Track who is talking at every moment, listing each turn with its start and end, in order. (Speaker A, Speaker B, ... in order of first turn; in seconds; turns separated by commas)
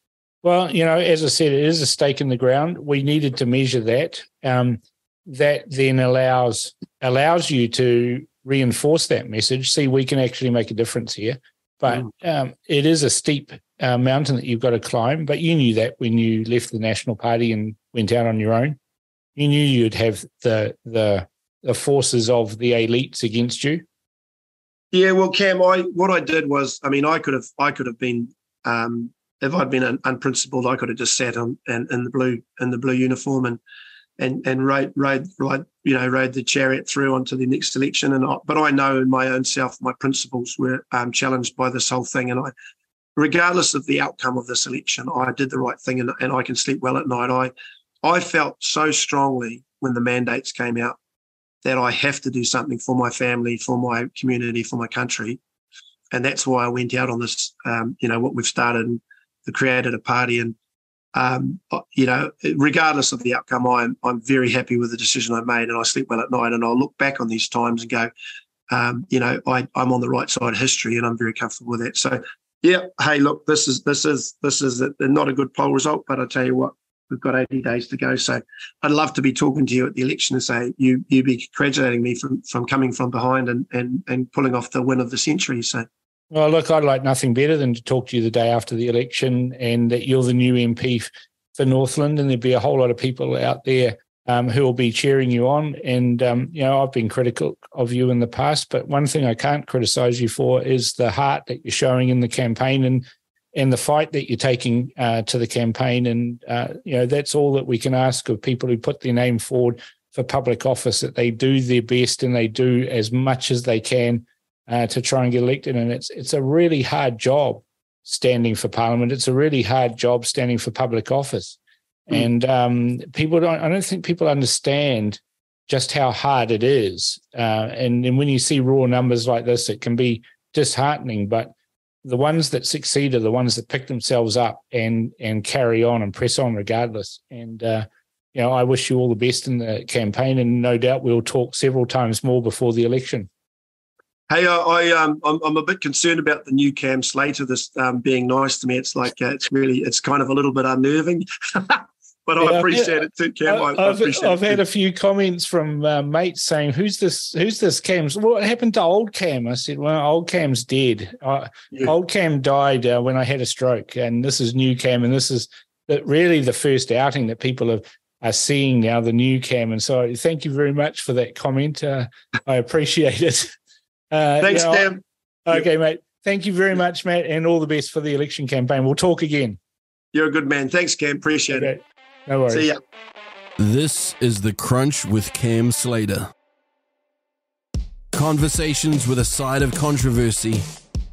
Speaker A: 0.4-18.8, Speaker A: 19.4-23.8, Speaker B: 24.9-33.6, Speaker B: 34.2-42.5, Speaker B: 43.2-47.5, Speaker B: 48.0-51.0, Speaker B: 51.6-55.4, Speaker B: 56.1-60.5, Speaker B: 61.1-68.1, Speaker B: 68.7-85.9, Speaker A: 86.3-143.3, Speaker B: 144.3-154.6, Speaker A: 152.4-173.5, Speaker A: 174.1-179.6, Speaker B: 174.4-175.0, Speaker B: 180.1-181.8, Speaker A: 181.5-182.7, Speaker B: 182.5-182.8, Speaker C: 183.6-186.3, Speaker C: 188.1-190.7